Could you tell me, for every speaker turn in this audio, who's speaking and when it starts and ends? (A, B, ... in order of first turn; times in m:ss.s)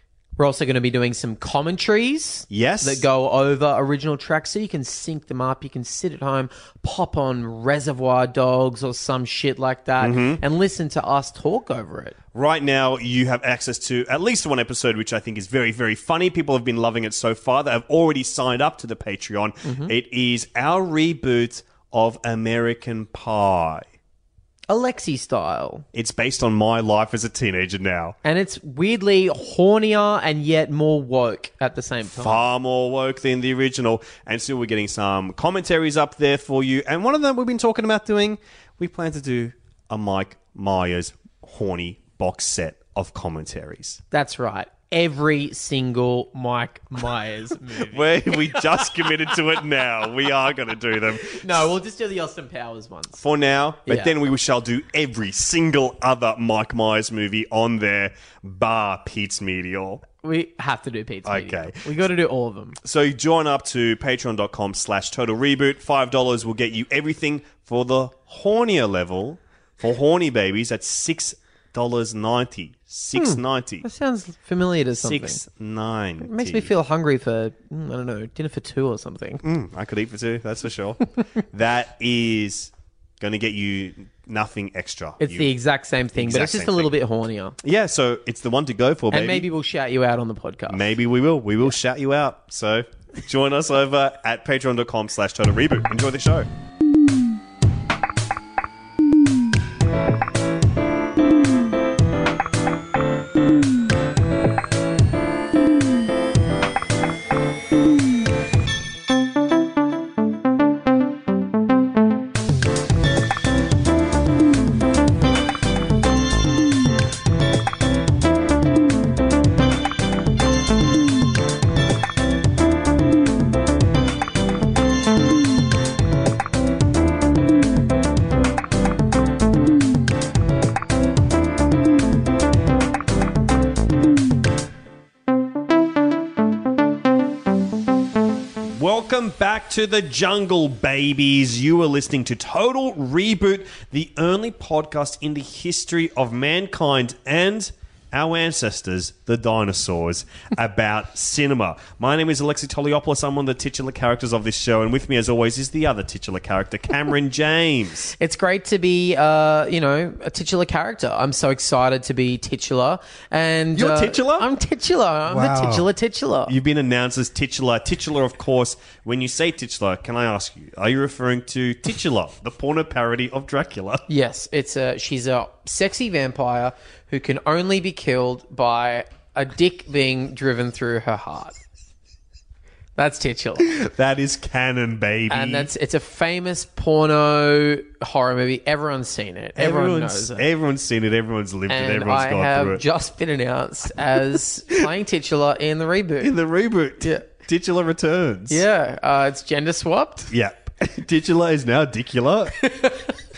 0:00.4-0:12.2 A
0:02.5-0:03.0 B
0:10.0-0:10.4 B
0:12.3-0:23.8 B
0:19.6-0:19.9 A
0:24.7-0:25.8 A
0:25.9-0:28.2 B
0:28.2-0:32.4 A
0:32.0-0:44.0 B
0:44.1-0:48.3 A
0:47.8-0:51.7 B
0:51.4-0:53.2 A
0:53.2-1:00.0 B
0:53.8-0:54.1 A
1:00.2-1:02.8 A
1:01.2-1:01.8 B
1:02.8-1:13.8 B
1:13.1-1:15.4 A
1:15.0-1:16.7 B
1:16.2-1:19.4 A
1:19.4-1:25.5 B
1:25.2-1:27.6 A
1:26.1-1:26.9 B
1:27.6-1:29.5 B
1:29.1-1:30.8 A
1:30.7-1:36.5 B
2:18.7-2:38.1 B
2:38.2-2:46.5 A
2:43.7-2:44.5 B
2:45.3-2:45.9 B
2:46.5-2:54.0 B
2:54.1-3:01.6 A
3:03.0-3:03.7 A
3:03.6-3:05.7 B
3:05.3-3:10.4 A
3:09.6-3:12.8 B
3:11.7-3:16.3 A
3:16.2-3:18.6 B
3:17.0-3:17.3 A
3:18.5-3:20.3 A
3:20.3-3:22.6 B
3:22.6-3:23.1 A